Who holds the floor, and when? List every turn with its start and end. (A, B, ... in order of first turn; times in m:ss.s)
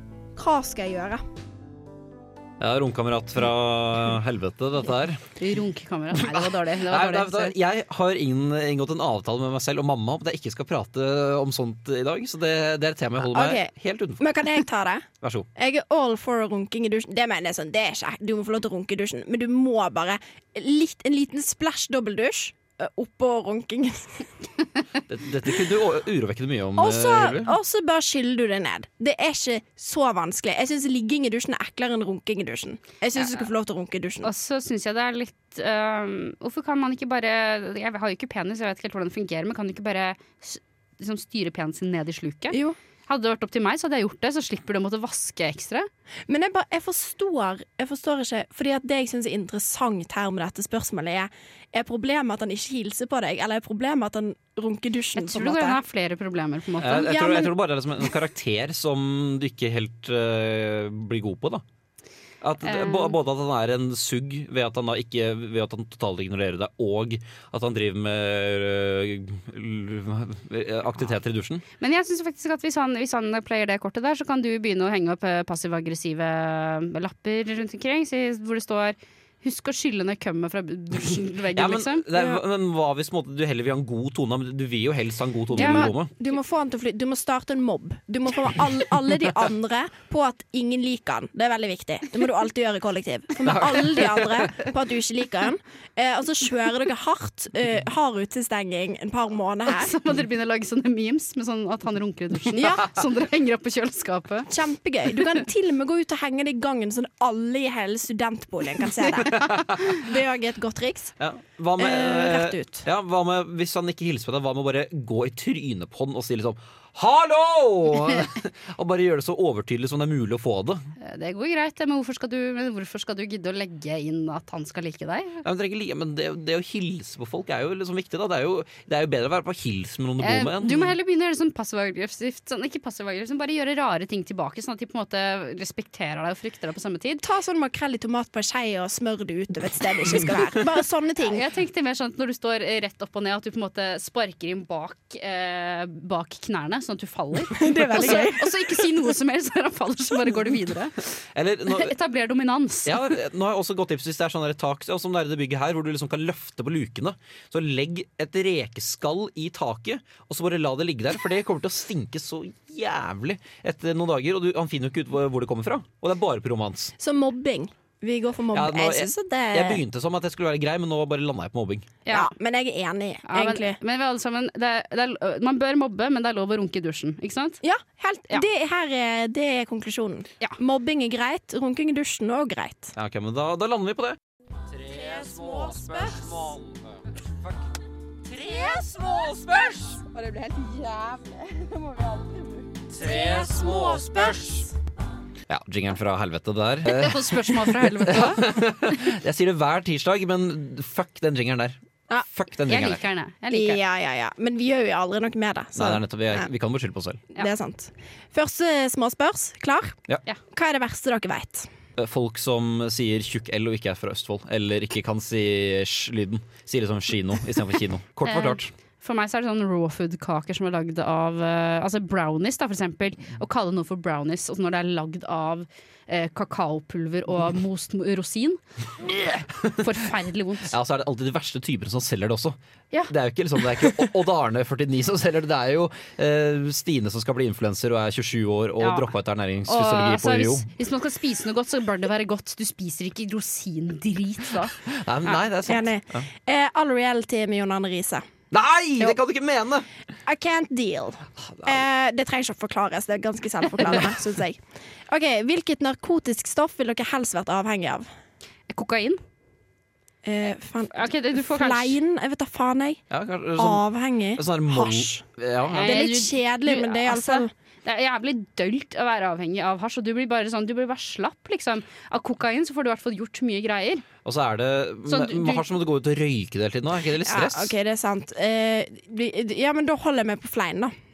0:00.3-0:01.2 A
0:02.6-0:05.2 B
0:05.4-0:07.5 C
0:06.1-0:14.2 B
0:13.2-0:24.3 A
0:25.1-0:27.5 B
0:26.8-0:34.3 A
0:34.2-0:45.9 C
0:42.5-0:42.8 A
0:46.3-0:55.8 A
0:55.2-0:57.2 C
0:56.8-1:01.6 B
0:57.0-0:57.5 A
1:02.4-1:11.6 B
1:02.6-1:03.1 C
1:11.8-1:22.0 C
1:21.5-1:26.1 B
1:22.1-1:22.4 A
1:25.5-1:25.9 C
1:25.5-1:39.9 A
1:33.4-1:34.5 B
1:39.7-1:44.5 C
1:42.5-1:42.9 A
1:44.5-1:51.2 A
1:49.2-1:50.0 B
1:51.2-2:00.9 B
1:51.8-1:52.8 A
2:01.0-2:05.4 C
2:05.4-2:10.9 B
2:10.2-2:17.2 C
2:17.2-2:21.4 A
2:21.2-2:31.0 C
2:27.5-2:28.7 A
2:31.3-2:31.9 B
2:31.7-2:33.0 C
2:32.8-2:46.9 B
2:47.0-2:49.8 A
2:48.5-2:51.9 B
2:52.0-2:52.3 C
2:52.1-2:53.8 A
2:53.2-2:57.6 C
2:57.6-3:02.9 A
3:03.0-3:04.2 B
3:04.7-3:07.5 B
3:04.8-3:06.4 A
3:08.3-3:10.0 B
3:08.3-3:09.2 A
3:09.9-3:14.6 A
3:12.9-3:14.6 B
3:15.5-3:23.0 B
3:16.8-3:18.5 C
3:22.7-3:23.8 C
3:23.5-3:26.5 A
3:25.8-3:27.2 B
3:27.3-3:30.0 A
3:30.5-3:31.7 A
3:32.0-3:38.7 B
3:38.2-3:48.6 C
3:49.0-3:49.8 B
3:49.8-3:50.7 C
3:50.7-3:52.6 B
3:53.1-4:00.6 B
3:58.8-3:59.1 C
3:59.7-4:04.7 C
4:04.8-4:06.2 B
4:05.6-4:08.3 A
4:08.5-4:09.9 B
4:10.2-4:18.1 A
4:11.4-4:11.8 B
4:18.7-4:19.2 C
4:20.2-4:23.0 A
4:20.9-4:22.0 C
4:23.1-4:23.8 B
4:23.6-4:25.2 A
4:24.4-4:26.0 B
4:25.7-4:34.0 C
4:25.8-4:27.5 A
4:34.2-4:37.7 B
4:35.1-4:35.6 C
4:37.2-4:40.9 A